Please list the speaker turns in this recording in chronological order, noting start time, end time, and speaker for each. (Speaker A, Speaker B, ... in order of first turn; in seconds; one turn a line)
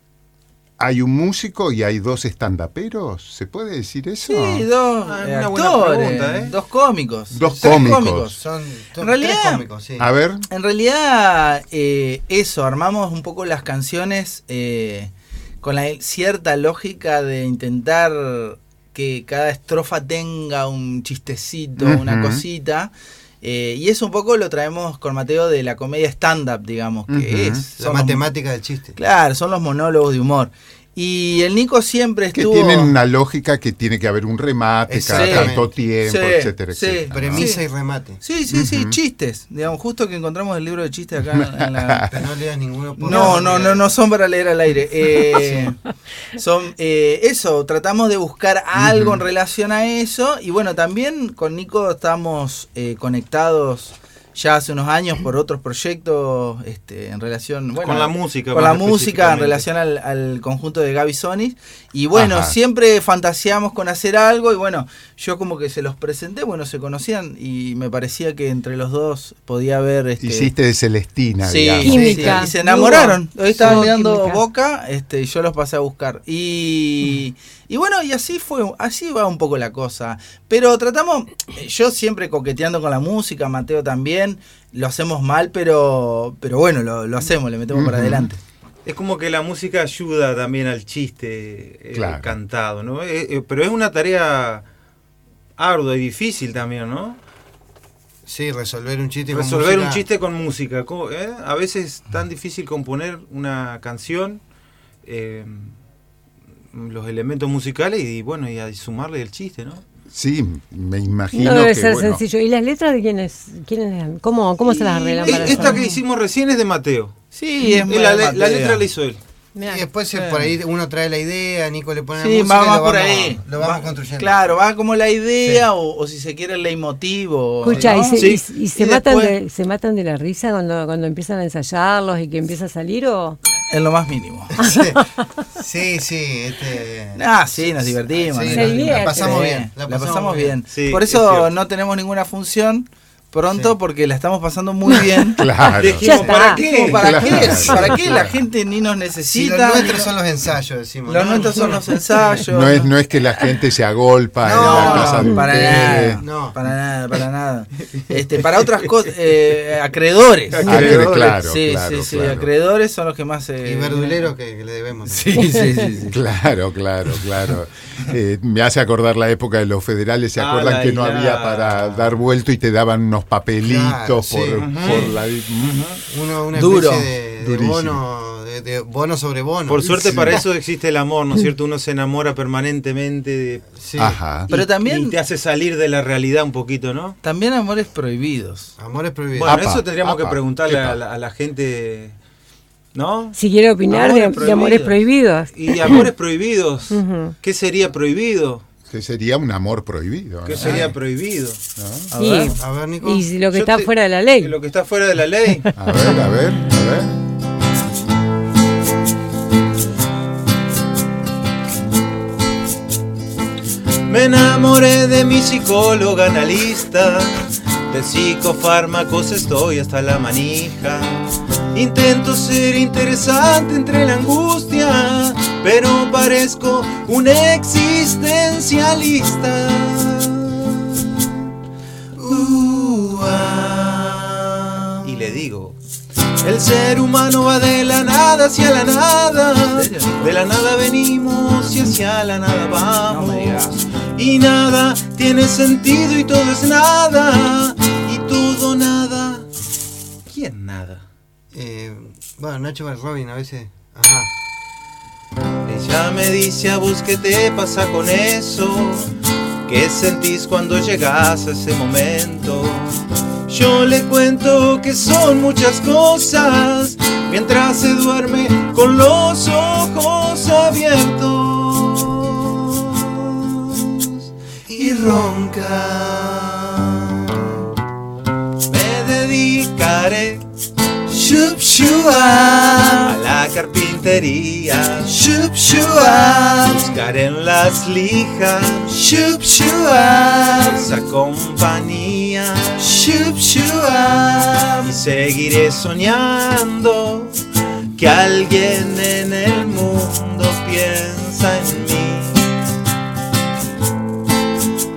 Speaker A: 0.8-4.7
Speaker B: 4.2-8.4
Speaker C: 5.0-6.6
Speaker A: 7.3-8.3
Speaker D: 7.5-10.1
Speaker B: 9.0-9.7
Speaker A: 10.0-10.4
Speaker B: 10.5-28.2
Speaker A: 21.8-22.4
Speaker A: 27.1-27.7
Speaker D: 27.8-29.0
Speaker B: 28.9-33.0
Speaker A: 32.3-37.5
Speaker D: 34.9-35.7
Speaker B: 35.1-37.6
Speaker D: 37.1-38.2
Speaker B: 38.2-42.1
Speaker A: 38.5-39.0
Speaker D: 42.1-43.9
Speaker B: 43.0-45.8
Speaker B: 46.4-70.5
Speaker A: 48.8-49.2
Speaker C: 57.8-59.7
Speaker A: 62.1-62.6
Speaker A: 70.2-72.5
Speaker B: 71.4-88.4
Speaker E: 71.8-74.4
Speaker A: 87.7-88.3
Speaker C: 88.8-94.6
Speaker A: 91.9-92.4
Speaker C: 95.6-97.2
Speaker D: 98.3-100.0
Speaker C: 99.3-104.4
Speaker C: 105.0-105.8
Speaker C: 106.7-109.8
Speaker A: 110.1-112.2
Speaker E: 111.3-115.8
Speaker C: 114.6-119.2
Speaker B: 115.2-116.0
Speaker B: 117.3-118.9
Speaker E: 119.5-119.9
Speaker D: 119.6-124.4
Speaker B: 120.1-120.5
Speaker B: 122.2-129.4
Speaker D: 125.4-125.7
Speaker E: 127.6-133.4
Speaker D: 127.7-128.0
Speaker C: 128.2-128.4
Speaker B: 133.7-134.7
Speaker D: 134.6-135.0
Speaker D: 135.5-140.6
Speaker B: 137.1-145.4
Speaker E: 138.5-139.4
Speaker C: 140.7-141.5
Speaker E: 144.9-147.8
Speaker A: 145.3-146.1
Speaker C: 145.7-147.6
Speaker B: 146.1-150.1
Speaker A: 146.9-148.4
Speaker D: 149.3-151.9
Speaker B: 151.1-152.9
Speaker A: 152.4-156.2
Speaker D: 154.4-155.3
Speaker B: 154.5-164.3
Speaker E: 155.1-155.8
Speaker D: 156.2-156.6
Speaker A: 160.5-162.5
Speaker E: 160.6-161.1
Speaker D: 163.6-165.4
Speaker B: 165.1-166.2
Speaker A: 166.0-175.8
Speaker C: 170.4-172.2
Speaker D: 173.6-174.8
Speaker C: 174.6-176.0
Speaker D: 176.1-180.4
Speaker B: 176.5-177.1
Speaker C: 179.7-183.7
Speaker D: 183.8-184.2
Speaker A: 184.0-184.5
Speaker C: 184.4-187.2
Speaker B: 184.5-185.2
Speaker B: 187.2-188.7
Speaker D: 188.8-189.6
Speaker C: 189.4-192.1
Speaker A: 189.5-191.0
Speaker C: 192.9-195.0
Speaker E: 193.3-196.1
Speaker B: 194.0-195.0
Speaker C: 195.5-198.6
Speaker E: 196.9-197.3
Speaker A: 198.9-200.9
Speaker C: 200.4-201.6
Speaker D: 200.5-200.9
Speaker A: 201.8-202.1
Speaker B: 202.1-202.5
Speaker E: 202.1-204.6
Speaker D: 202.6-203.3
Speaker C: 203.5-205.7
Speaker E: 205.6-206.2
Speaker A: 205.8-207.2
Speaker C: 214.1-221.2
Speaker C: 221.7-231.3
Speaker C: 232.2-235.8
Speaker D: 232.4-233.5
Speaker C: 236.4-249.5
Speaker B: 239.6-240.4
Speaker B: 243.0-243.8
Speaker C: 250.3-251.0
Speaker D: 251.5-254.3
Speaker C: 255.7-259.1
Speaker C: 259.6-274.2
Speaker D: 274.7-277.4
Speaker C: 278.7-280.4
Speaker D: 281.1-283.1
Speaker C: 283.0-285.2
Speaker D: 285.1-286.8
Speaker C: 286.6-289.1
Speaker D: 289.1-290.5
Speaker C: 290.2-293.0
Speaker D: 293.0-294.8
Speaker C: 294.8-297.4
Speaker C: 298.0-302.5